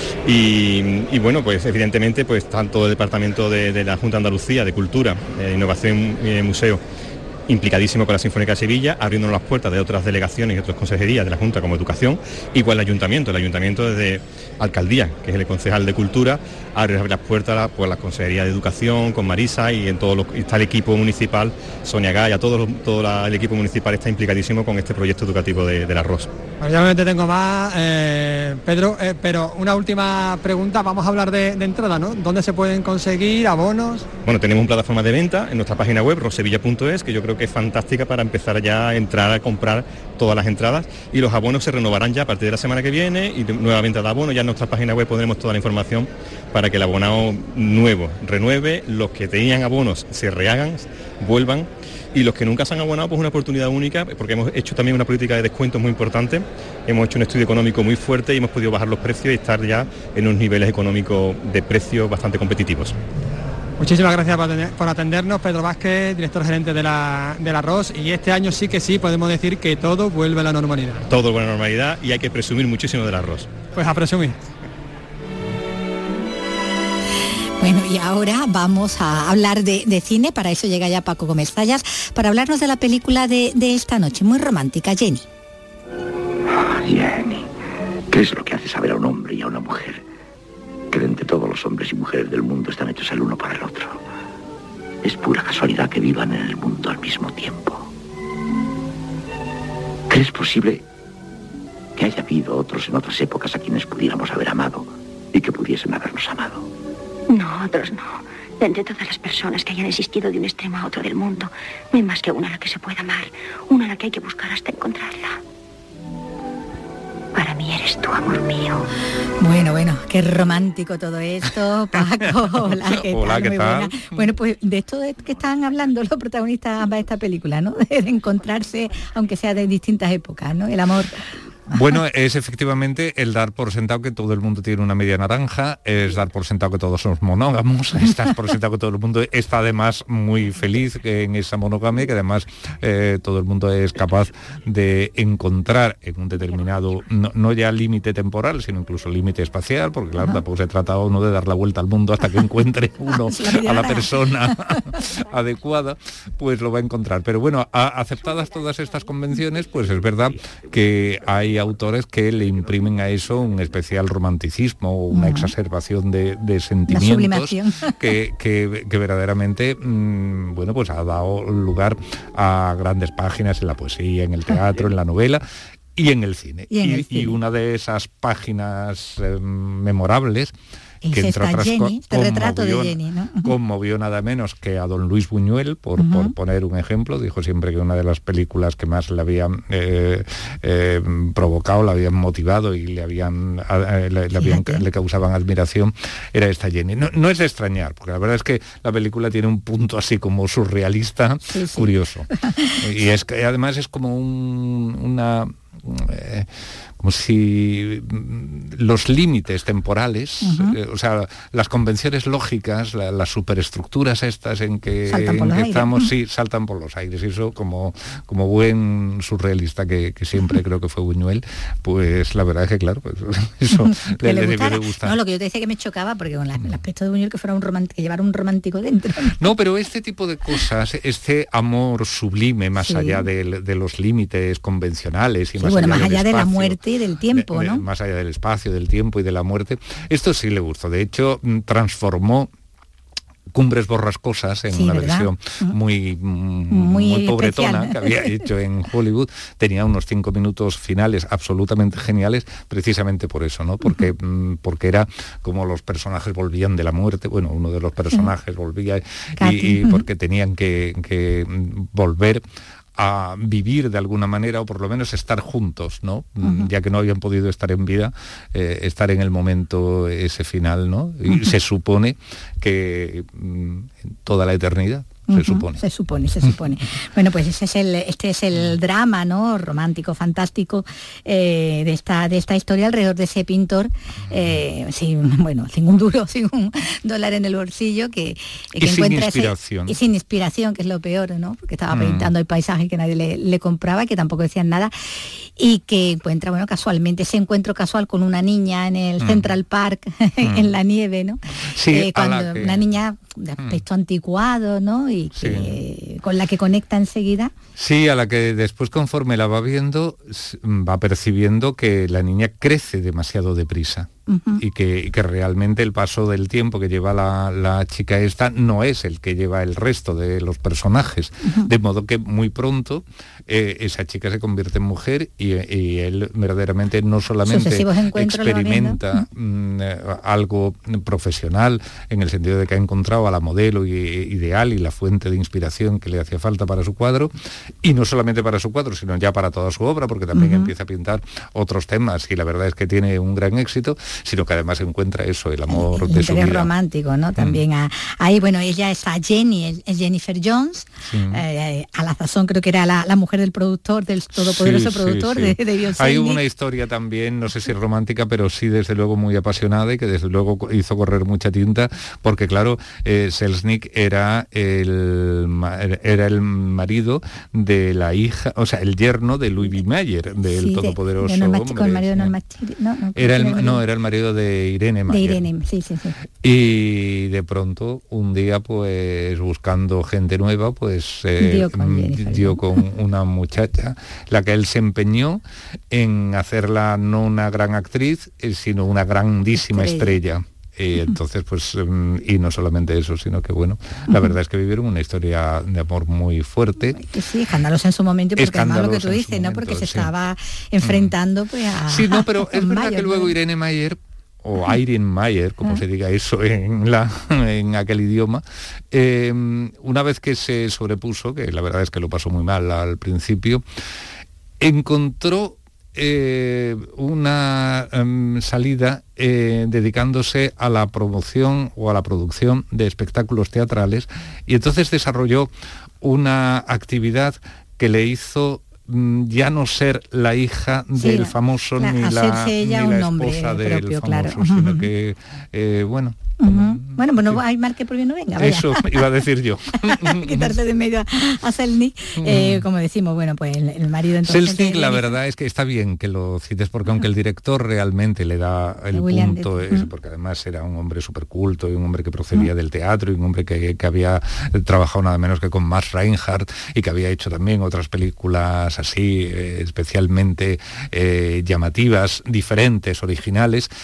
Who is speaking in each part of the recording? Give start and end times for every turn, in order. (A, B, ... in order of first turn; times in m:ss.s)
0:00.2-0:06.8 A
0:07.5-0:26.3 A
0:26.6-0:34.1 B
0:34.3-1:03.0 A
1:03.8-1:11.0 B
1:11.1-1:13.5 A
1:13.8-1:14.4 B
1:17.6-1:25.2 C
1:26.6-1:27.5 D
1:28.1-1:30.0 D
1:30.9-1:34.0 D
1:35.0-1:37.9 D
1:40.1-1:40.8 D
1:42.0-1:46.7 D
1:47.3-1:55.4 E
1:57.4-1:58.9 E
1:59.4-2:11.2 C
2:02.1-2:04.3 F
2:11.7-2:55.4 F
2:33.2-2:34.1 C
2:45.1-2:45.5 C
2:46.9-2:47.9 C
2:56.0-3:00.5 F
2:56.7-2:57.4 C
3:01.0-3:03.5 C
3:01.1-3:22.3 F
3:06.0-3:06.3 C
3:14.4-3:14.8 C
3:21.5-3:22.7 C
3:22.8-3:45.2 F
3:30.4-3:30.7 C
3:35.1-3:36.1 C
3:43.8-3:49.4 C
3:49.4-4:02.5 F
3:52.8-3:53.2 C
3:55.6-3:57.8 C
4:03.5-4:22.4 F
4:04.7-4:05.7 C
4:06.7-4:08.3 C
4:19.4-4:20.0 C
4:23.0-4:35.8 F
4:26.4-4:26.7 C
4:35.3-5:07.5 C
4:48.8-4:50.0 F
4:51.9-4:52.3 F
4:59.2-4:59.6 F
5:00.4-5:00.7 F
5:01.7-5:02.9 F
5:05.4-5:05.8 F
5:07.8-5:37.3 F
5:14.3-5:14.6 C
5:27.5-5:29.0 C
5:37.8-5:46.7 F
5:40.3-5:40.7 C
5:45.7-5:56.4 C
5:51.1-5:51.4 F
5:54.4-6:12.3 F
6:10.5-6:13.8 C
6:13.2-6:15.5 F
6:15.1-6:16.2 C
6:16.4-6:37.0 F
6:21.4-6:22.6 C
6:29.6-6:30.2 C
6:36.9-6:43.3 C
6:38.4-6:40.1 F
6:40.8-6:41.1 F
6:41.9-6:53.6 F
6:54.6-7:05.5 F
7:06.0-7:17.4 F
7:11.0-7:14.9 C
7:16.4-7:19.0 C
7:18.4-7:20.6 F
7:19.8-7:25.1 C
7:22.2-7:22.7 F
7:24.2-7:43.7 F
7:28.9-7:29.9 C